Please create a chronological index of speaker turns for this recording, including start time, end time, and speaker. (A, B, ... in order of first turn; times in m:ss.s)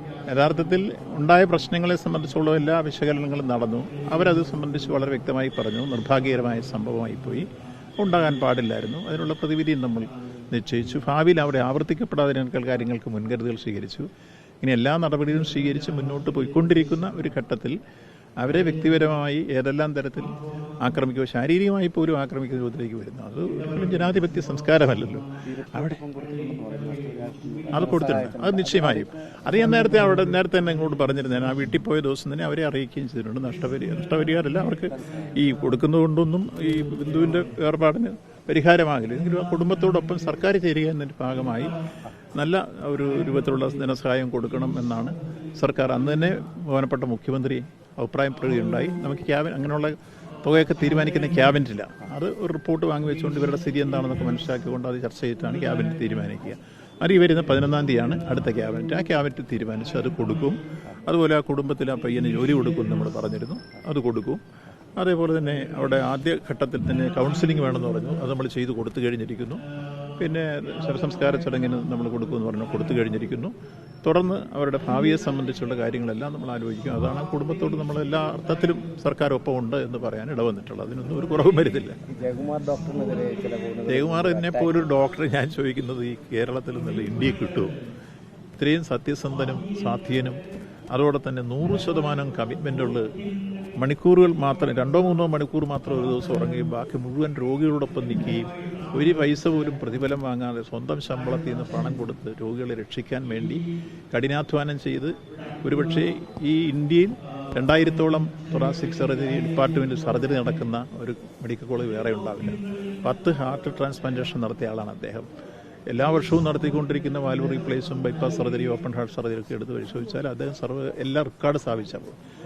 0:00.3-0:14.1 A
0:14.6-0:17.8 A
0:18.4-0:20.3 A
0:20.8-0:26.0 A
0:25.4-0:29.5 B
0:27.7-0:41.7 A
0:34.9-0:35.4 B
0:42.3-1:04.4 A
1:05.0-1:09.6 A
1:10.2-1:22.0 A
1:22.1-1:24.9 B
1:23.9-1:27.7 A
1:28.6-1:30.4 A
1:30.9-1:33.1 A
1:33.8-1:55.3 A
1:55.9-2:02.2 A